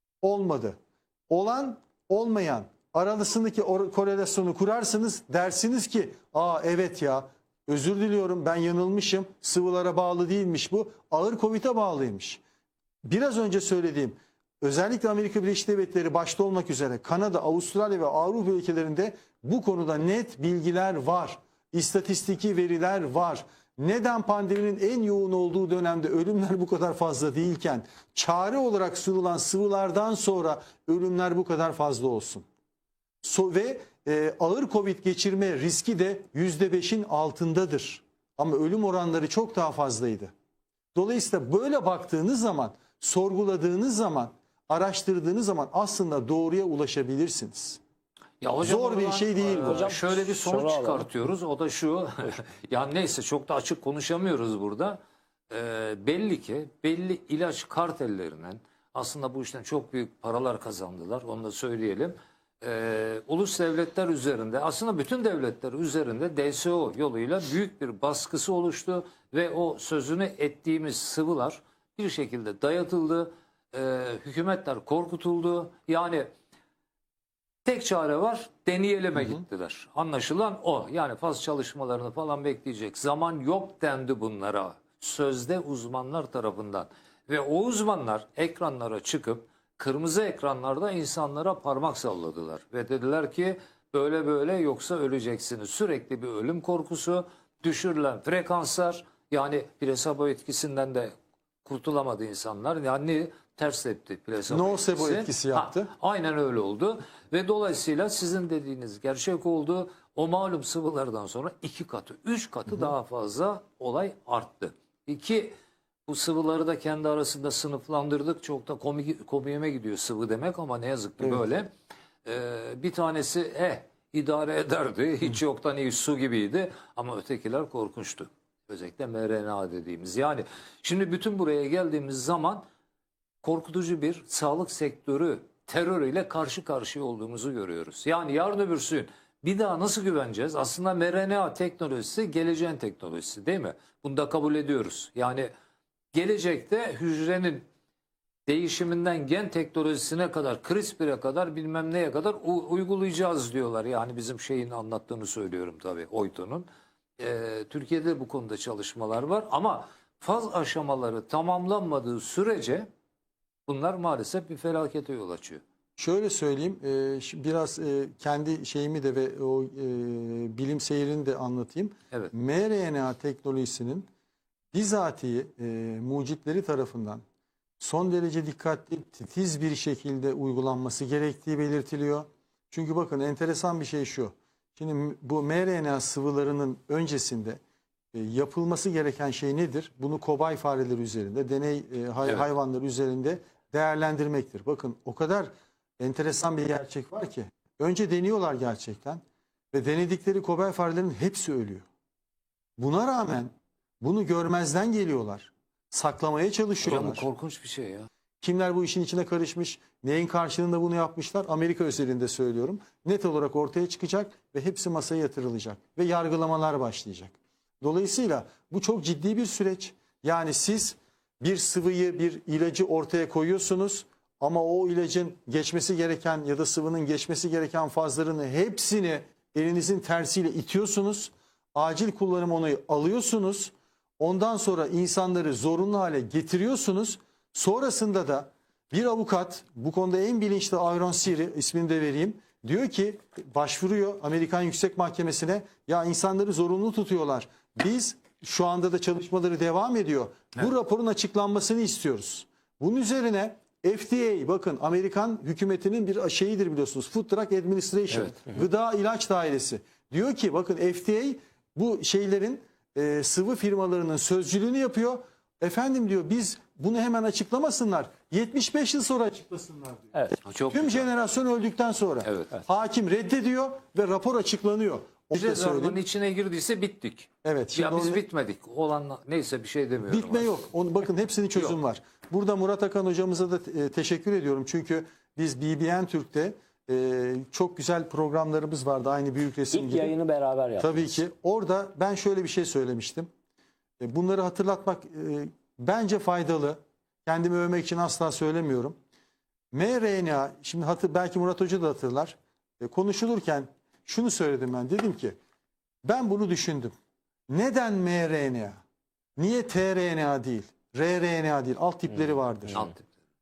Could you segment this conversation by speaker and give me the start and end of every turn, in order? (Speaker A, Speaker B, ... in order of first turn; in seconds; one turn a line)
Speaker A: 0.2-0.8
Speaker A: 1.3-12.4
Speaker A: 13.0-32.5
Speaker A: 33.2-40.3
Speaker A: 40.9-47.8
Speaker B: 48.4-55.0
Speaker A: 48.6-50.0
Speaker C: 49.4-51.1
Speaker B: 55.5-76.3
Speaker B: 77.6-101.1
Speaker B: 101.6-115.5
Speaker A: 104.5-105.9
Speaker B: 116.1-121.7
Speaker B: 122.2-132.6
Speaker B: 133.4-145.5
Speaker B: 146.1-147.6
Speaker B: 148.5-156.7
Speaker B: 157.2-162.9
Speaker B: 163.7-165.6
Speaker A: 166.0-174.1
Speaker A: 174.7-177.2
Speaker A: 177.8-187.6
Speaker A: 188.1-201.8
Speaker A: 202.8-207.2
Speaker B: 206.8-208.1
Speaker A: 208.4-276.0
Speaker B: 258.1-258.4
Speaker B: 270.4-271.1
Speaker B: 272.2-272.5
Speaker B: 275.3-280.6
Speaker A: 277.4-278.2
Speaker A: 280.0-290.1
Speaker C: 289.7-291.1
Speaker A: 290.8-293.3
Speaker A: 294.0-298.9
Speaker A: 299.7-305.4
Speaker A: 306.0-306.9
Speaker A: 307.5-308.8
Speaker A: 309.4-312.9
Speaker B: 312.7-313.1